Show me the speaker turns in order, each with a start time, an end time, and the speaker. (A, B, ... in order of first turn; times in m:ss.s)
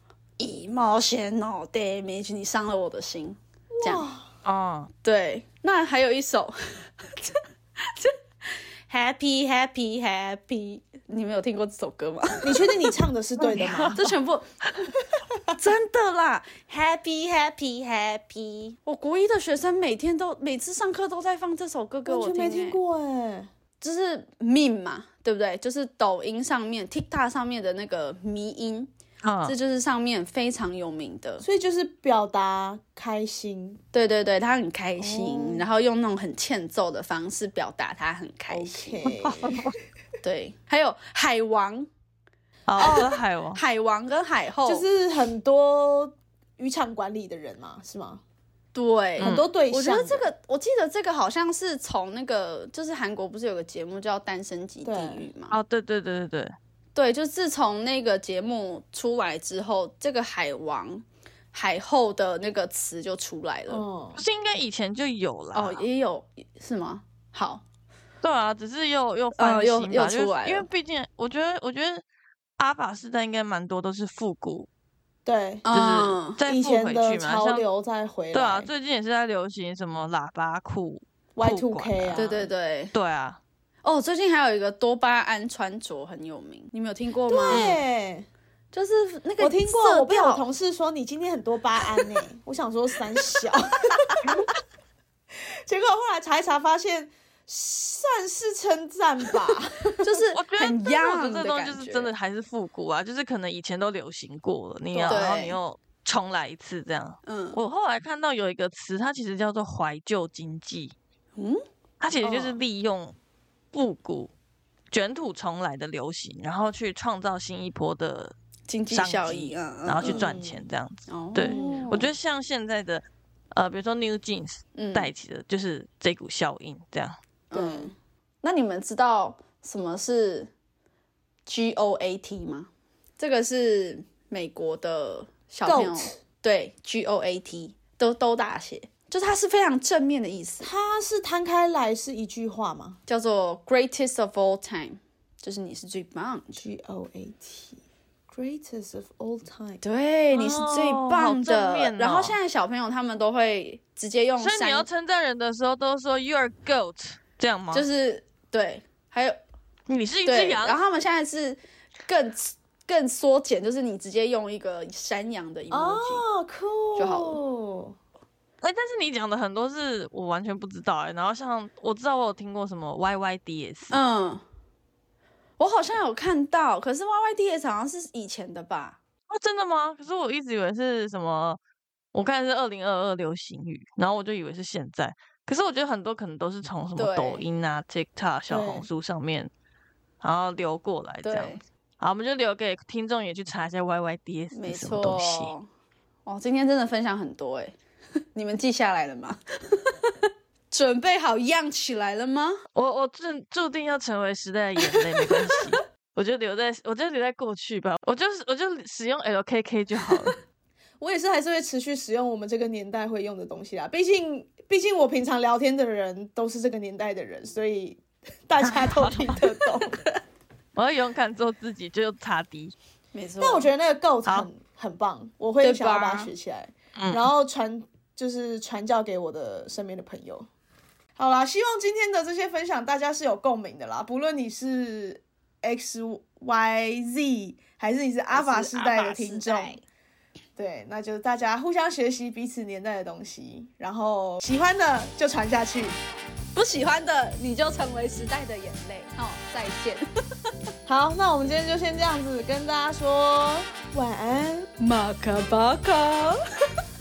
0:00.4-0:04.0 A
0:03.8-0:04.3 B
0:04.4-0:04.9 C
0:05.0-0:13.0 A
0:12.4-0:14.0 B
0:13.4-0:14.1 C
0:13.9-0:14.4 A
0:15.5-0:22.8 A
0:22.0-0:23.5 B
0:23.8-0:28.9 A
0:29.2-0:29.6 C
0:29.4-0:31.4 A
0:31.4-0:33.8 B
0:33.9-0:39.1 A
0:35.0-0:35.7 B
0:38.5-0:39.7 B
0:39.2-0:39.7 C
0:40.2-0:41.9 A
0:42.7-0:43.6 C
0:42.8-0:44.8 A
0:44.6-0:48.2 B
0:48.7-0:55.6 A
0:49.2-0:49.5 C
0:49.2-0:50.3 B
0:54.8-0:55.2 B
0:55.5-0:56.5 C
0:56.9-1:03.8 A
1:03.7-1:04.2 B
1:04.2-1:05.8 C
1:05.5-1:07.6 A
1:08.2-1:12.0 C
1:09.4-1:10.7 A
1:12.6-1:14.7 C
1:15.2-1:15.7 B
1:15.6-1:16.4 A
1:15.7-1:17.6 C
1:16.4-1:18.7 B
1:18.3-1:22.4 C
1:21.4-1:22.5 B
1:22.2-1:22.9 A
1:22.9-1:23.4 C
1:23.8-1:27.7 A
1:27.3-1:28.3 B
1:27.5-1:27.8 C
1:28.7-1:30.4 A
1:29.4-1:34.4 B
1:35.7-1:40.2 B
1:40.0-1:42.1 A
1:40.3-1:50.9 C
1:44.9-1:45.3 B
1:45.0-1:45.6 A
1:47.2-1:47.6 A
1:51.4-1:51.6 A
1:52.0-1:53.2 C
1:52.2-1:52.6 A
1:53.7-1:54.3 C
1:54.9-1:58.3 C
1:58.7-2:00.3 A
1:58.9-2:07.2 C
2:00.0-2:00.6 B
2:01.1-2:02.0 A
2:01.4-2:02.1 B
2:04.7-2:05.1 A
2:07.5-2:10.5 A
2:07.5-2:07.9 B
2:11.5-2:20.7 A
2:15.6-2:16.2 B
2:20.6-2:23.0 B
2:23.1-2:26.6 A
2:26.6-2:29.8 B
2:29.8-2:34.9 A
2:30.3-2:32.4 C
2:34.4-2:37.8 C
2:37.7-2:39.4 A
2:39.9-2:40.8 C
2:40.2-2:46.2 A
2:45.7-2:48.0 B
2:47.0-2:47.4 A
2:48.6-2:54.0 C
2:53.9-2:54.4 A
2:55.6-2:59.0 A
2:59.3-3:01.6 C
3:02.1-3:09.5 C
3:07.0-3:07.4 A
3:08.5-3:08.9 B
3:10.2-3:15.5 C
3:11.2-3:11.6 A
3:14.5-3:15.6 A
3:16.2-3:17.8 A
3:18.3-3:22.6 A
3:22.7-3:30.3 C
3:24.9-3:25.6 A
3:31.0-3:40.1 B
3:40.8-3:42.7 C
3:43.1-3:43.7 A
3:43.4-3:50.5 B
3:45.6-3:46.3 A
3:47.0-3:47.3 C
3:51.2-3:59.8 B
3:58.3-3:59.8 A
4:00.6-4:06.0 B
4:06.5-4:10.0 A
4:10.8-4:14.7 B
4:14.8-4:16.4 A